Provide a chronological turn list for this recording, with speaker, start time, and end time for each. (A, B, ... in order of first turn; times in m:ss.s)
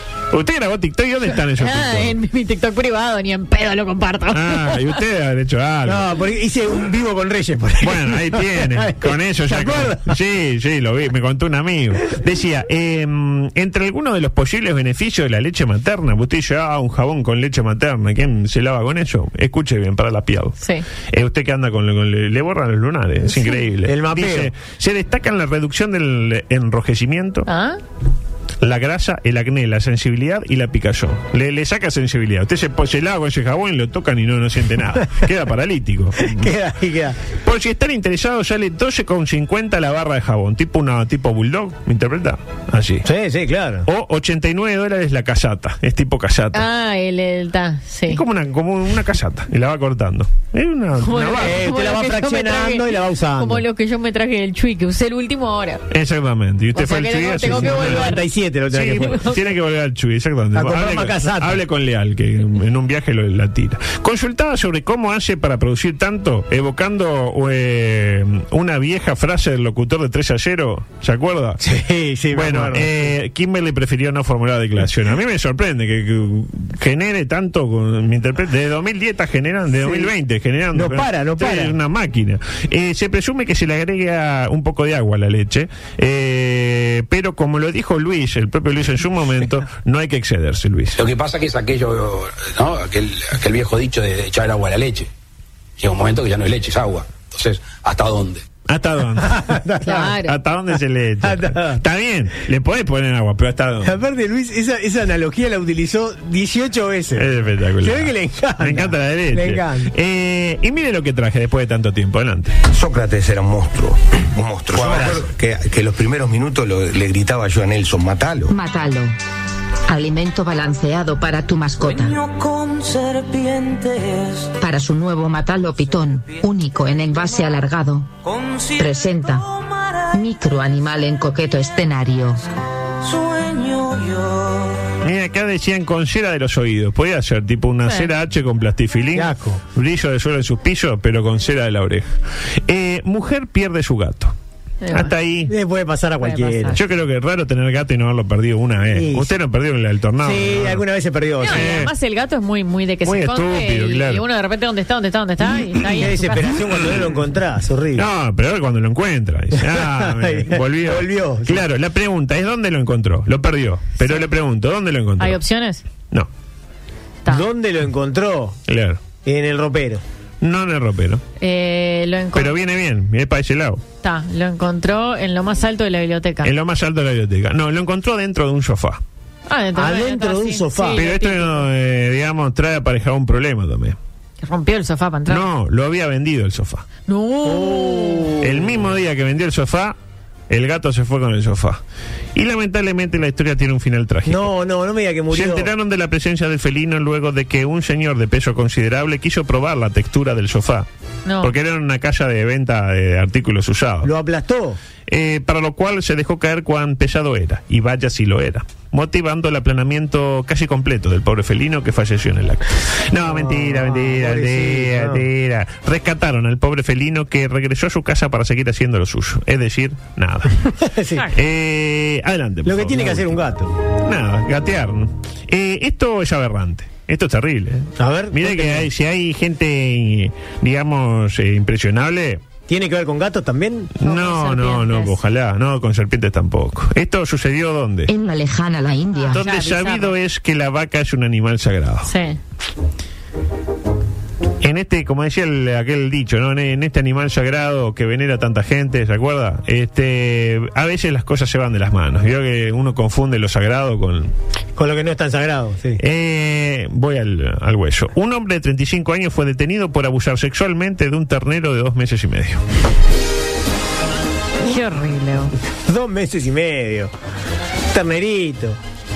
0:00.3-0:02.2 A
0:01.6-0:04.8 B
0:04.3-0:06.1 A
0:05.8-0:10.2 C
0:07.8-0:20.6 A
0:20.6-0:20.8 B
0:21.1-0:27.5 A
0:23.8-0:24.5 C
0:27.5-0:27.8 B
0:28.6-0:36.5 A
0:36.2-0:37.2 C
0:37.4-0:43.1 A
0:43.0-0:43.9 C
0:43.9-0:46.6 A
0:46.5-0:48.2 B
0:48.1-0:51.7 A
0:51.0-0:55.8 B
0:51.4-0:53.6 C
0:55.9-0:58.2 A
0:56.7-0:58.2 B
0:57.4-0:59.3 C
0:58.7-1:11.6 A
0:59.1-0:59.4 B
1:00.5-1:01.6 C
1:11.6-1:13.1 C
1:12.3-1:31.0 A
1:19.8-1:20.1 C
1:20.7-1:21.8 C
1:31.0-1:35.1 D
1:35.8-1:38.4 D
1:38.7-1:39.5 A
1:39.2-1:40.2 C
1:39.8-1:40.4 B
1:40.2-1:44.0 A
1:41.2-1:41.8 C
1:43.8-1:49.9 C
1:47.2-1:52.6 A
1:52.7-1:58.6 E
1:58.5-1:59.1 F
1:59.9-2:02.2 F
2:01.8-2:04.6 G
2:04.6-2:08.1 F
2:08.2-2:10.1 G
2:08.8-2:09.4 F
2:10.2-2:12.4 F
2:13.0-2:14.8 G
2:15.0-2:22.1 A
2:19.1-2:19.6 C
2:22.7-2:24.3 A
2:24.8-2:25.1 B
2:24.9-2:25.5 A
2:25.5-2:26.8 C
2:26.2-2:26.8 B
2:26.7-2:30.8 A
2:28.9-2:29.3 C
2:30.2-2:31.8 C
2:31.4-2:36.6 B
2:31.5-2:31.9 A
2:33.0-2:34.2 A
2:35.8-2:38.1 C
2:37.9-2:45.4 A
2:39.6-2:41.7 C
2:45.2-2:45.8 B
2:47.3-2:48.6 C
2:48.7-2:49.0 A
2:49.2-2:50.0 C
2:50.4-2:51.2 A
2:51.4-2:52.6 B
2:52.4-2:53.8 A
2:54.0-2:56.5 B
2:56.4-2:59.0 A
2:59.5-3:01.6 B
2:59.8-3:01.0 C
3:01.0-3:04.0 A
3:04.4-3:05.5 B
3:05.3-3:06.9 A
3:07.1-3:08.3 B
3:07.4-3:08.8 C
3:08.4-3:10.0 A
3:10.5-3:11.8 A
3:12.4-3:14.5 A
3:14.3-3:15.7 C
3:15.3-3:20.9 A
3:21.3-3:21.5 B
3:21.4-3:24.1 A
3:24.0-3:24.8 C
3:25.1-3:40.6 A
3:33.2-3:35.2 C
3:40.7-3:41.3 C
3:41.3-3:43.4 A
3:42.6-3:43.8 C
3:43.9-3:52.4 A
3:48.0-3:48.9 C
3:52.7-3:53.9 C
3:54.0-3:58.1 A
3:54.0-3:55.2 B
3:58.1-3:59.4 F
3:59.2-4:00.1 B
3:59.3-4:02.1 A
4:02.1-4:02.4 B
4:04.6-4:14.3 A
4:14.8-4:16.0 C
4:16.0-4:22.6 A
4:24.6-4:25.5 B
4:25.8-4:27.1 C
4:27.9-4:28.8 C